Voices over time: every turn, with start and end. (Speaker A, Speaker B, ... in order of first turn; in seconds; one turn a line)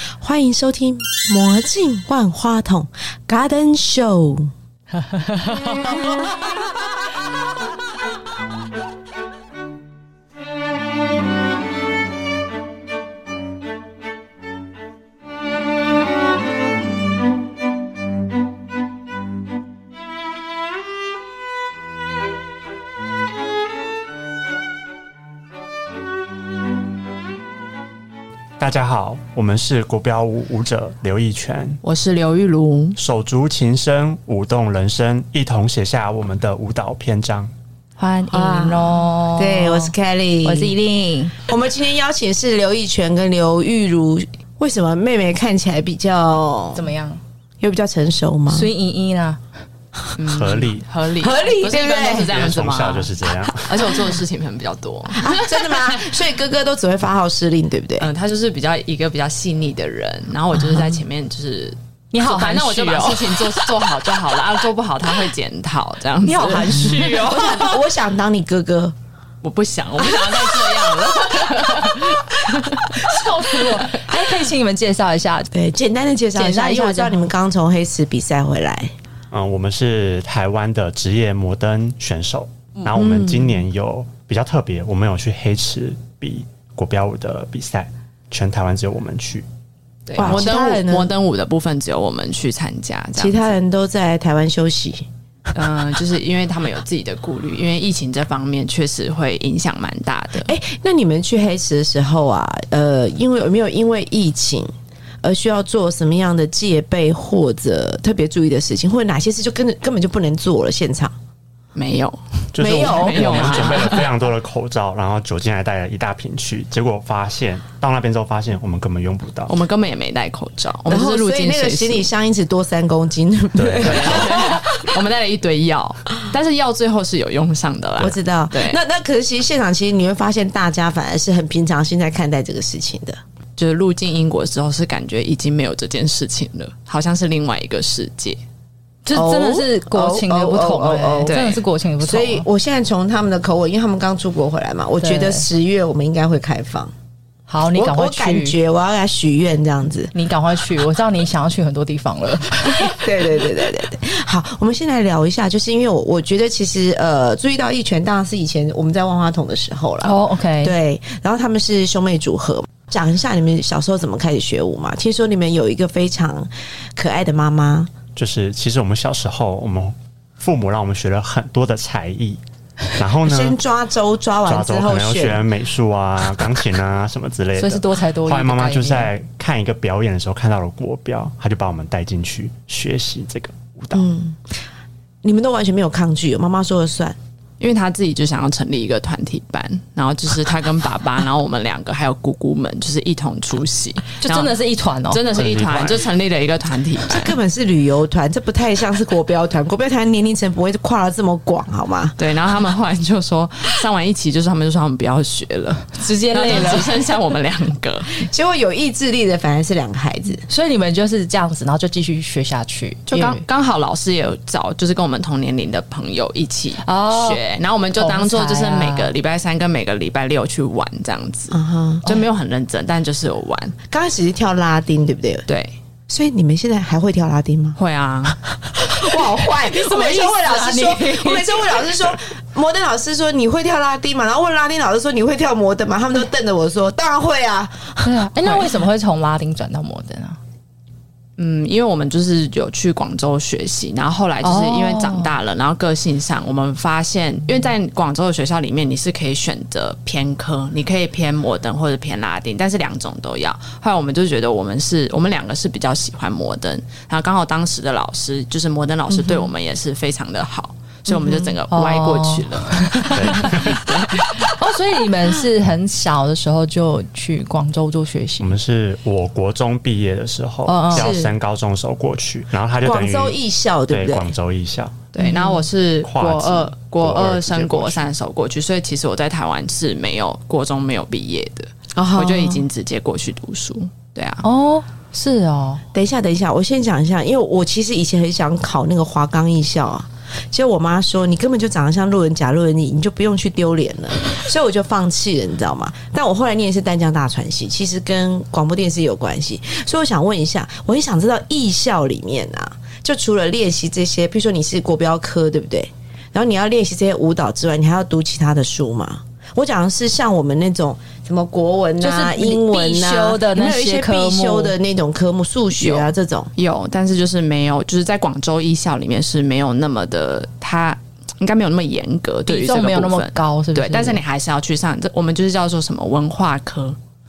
Speaker A: 0.2-4.5
Speaker B: 28.6-31.8
Speaker C: 31.8-33.0
Speaker B: 33.0-37.5
Speaker D: 38.0-39.9
Speaker A: 38.3-40.8
Speaker D: 40.4-41.4
Speaker A: 41.4-46.8
Speaker D: 46.7-47.2
Speaker A: 47.6-48.7
Speaker D: 48.5-49.4
Speaker C: 50.1-56.1
Speaker B: 50.3-50.9
Speaker A: 51.2-52.3
Speaker B: 52.3-53.9
Speaker A: 55.1-58.1
Speaker C: 58.0-67.3
Speaker A: 60.5-61.0
Speaker D: 62.1-63.6
Speaker D: 66.2-67.8
Speaker A: 66.8-68.9
Speaker C: 69.4-74.2
Speaker D: 72.9-75.5
Speaker A: 75.5-78.9
Speaker D: 76.3-77.3
Speaker B: 79.3-89.5
Speaker A: 82.9-83.6
Speaker C: 90.1-93.6
Speaker A: 90.2-91.1
Speaker D: 90.3-90.7
Speaker A: 93.2-95.1
Speaker C: 95.5-100.5
Speaker A: 100.4-104.7
Speaker A: 105.2-111.1
Speaker C: 111.7-114.1
Speaker B: 112.5-119.5
Speaker A: 112.6-113.9
Speaker C: 119.5-122.1
Speaker A: 120.9-124.7
Speaker B: 123.5-124.5
Speaker C: 123.8-128.8
Speaker A: 128.0-133.2
Speaker C: 133.6-138.4
Speaker D: 139.0-142.4
Speaker A: 139.1-141.4
Speaker C: 141.2-141.6
Speaker A: 142.0-146.9
Speaker D: 145.0-145.5
Speaker D: 147.5-148.6
Speaker A: 147.7-150.1
Speaker D: 150.1-153.0
Speaker A: 152.7-167.9
Speaker D: 160.0-160.7
Speaker B: 168.1-172.4
Speaker B: 172.9-173.6
Speaker A: 173.2-175.4
Speaker B: 174.4-184.1
Speaker D: 177.6-179.1
Speaker A: 183.9-184.5
Speaker A: 185.2-187.2
Speaker C: 187.6-194.6
Speaker D: 194.2-195.2
Speaker C: 195.1-197.4
Speaker B: 195.3-196.1
Speaker A: 197.1-202.2
Speaker C: 202.2-208.2
Speaker D: 206.0-207.1
Speaker A: 208.1-210.4
Speaker D: 210.5-213.4
Speaker C: 213.1-223.8
Speaker D: 216.8-217.4
Speaker D: 217.9-219.1
Speaker A: 221.5-222.1
Speaker A: 223.9-225.4
Speaker C: 225.5-225.7
Speaker A: 226.1-227.8
Speaker C: 227.8-228.4
Speaker A: 228.5-238.7
Speaker D: 229.5-231.8
Speaker D: 238.0-240.4
Speaker C: 241.4-264.3
Speaker D: 244.4-245.3
Speaker A: 259.1-259.5
Speaker A: 261.1-261.6
Speaker D: 261.7-268.5
Speaker B: 263.1-263.9
Speaker B: 268.4-273.4
Speaker D: 270.7-271.1
Speaker A: 270.9-271.3
Speaker A: 272.8-274.3
Speaker B: 273.9-275.0
Speaker C: 275.1-284.4
Speaker A: 275.2-275.6
Speaker B: 276.0-278.1
Speaker A: 281.9-282.6
Speaker D: 284.4-285.8
Speaker A: 285.9-316.5
Speaker D: 312.0-314.7
Speaker C: 315.8-327.0
Speaker D: 322.5-324.2